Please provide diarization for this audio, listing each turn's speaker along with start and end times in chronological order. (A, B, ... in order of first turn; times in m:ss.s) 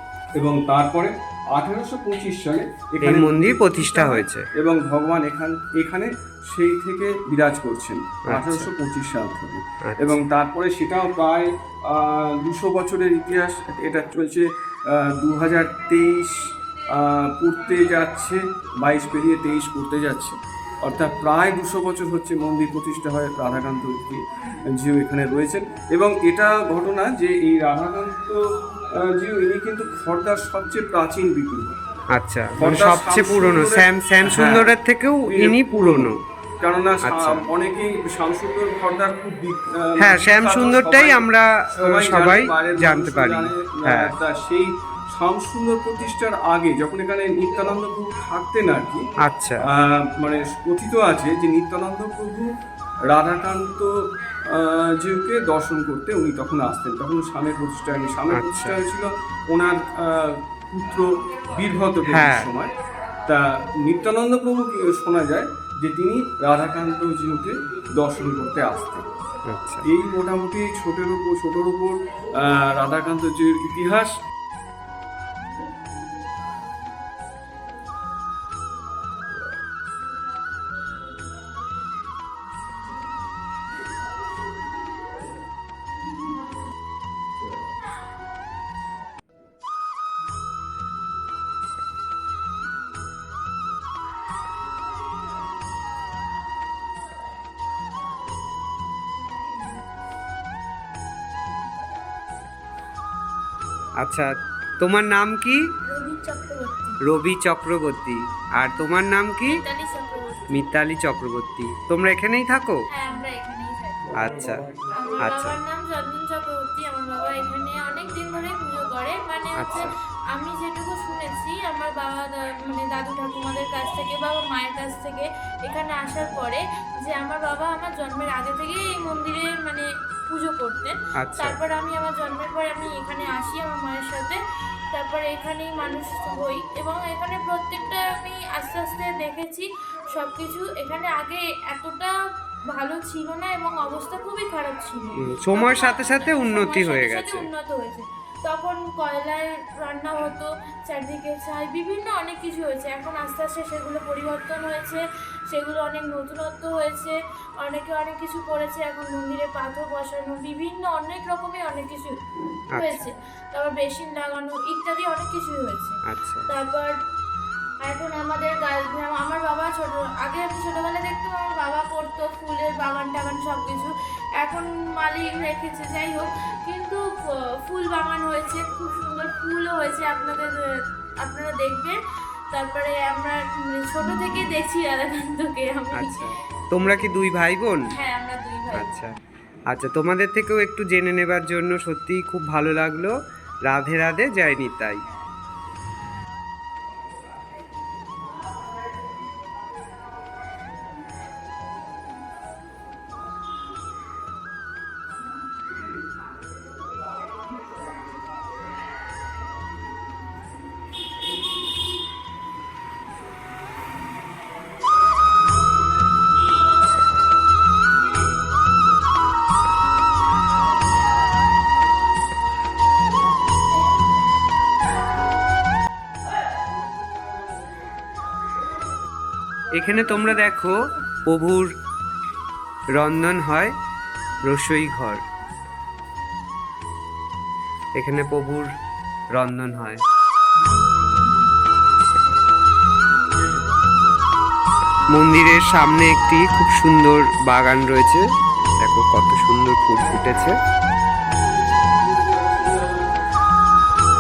0:00.4-0:31.8 A
0:03.0-0:04.4 B
0:08.3-0:08.7 B
0:09.8-0:10.2 B
0:32.1-0:36.1 B
0:32.6-0:34.7 A
0:35.3-0:49.1 A
0:37.0-0:37.3 B
0:40.0-0:44.1 B
0:49.2-0:49.6 B
0:49.6-0:52.5 A
0:53.1-1:02.7 A
1:02.1-1:02.5 B
1:03.2-1:09.1 A
1:09.4-1:09.8 B
1:09.8-1:14.1 A
1:44.0-1:45.6 B
1:45.8-1:47.0 C
1:47.0-1:49.6 B
1:49.4-1:50.6 C
1:50.5-1:52.8 B
1:52.9-1:54.1 C
1:54.2-1:54.6 B
1:54.9-2:14.4 C
1:55.3-1:55.5 B
1:59.6-1:59.9 B
2:14.9-2:22.1 C
2:22.7-2:42.2 C
2:25.3-2:27.4 B
2:42.7-2:43.0 B
2:42.7-2:47.0 C
2:46.2-2:46.5 B
2:47.8-3:02.0 C
3:02.5-3:07.2 C
3:05.9-3:07.9 B
3:07.9-3:09.0 C
3:08.7-3:09.1 B
3:09.7-3:13.1 B
3:13.6-3:15.0 B
3:49.7-3:51.7 B
3:52.9-3:53.7 B
3:54.4-3:55.2 B
3:57.9-3:58.7 B
3:59.3-4:00.0 B
4:05.1-4:08.2 B
4:08.8-4:10.6 B
4:11.3-4:13.0 A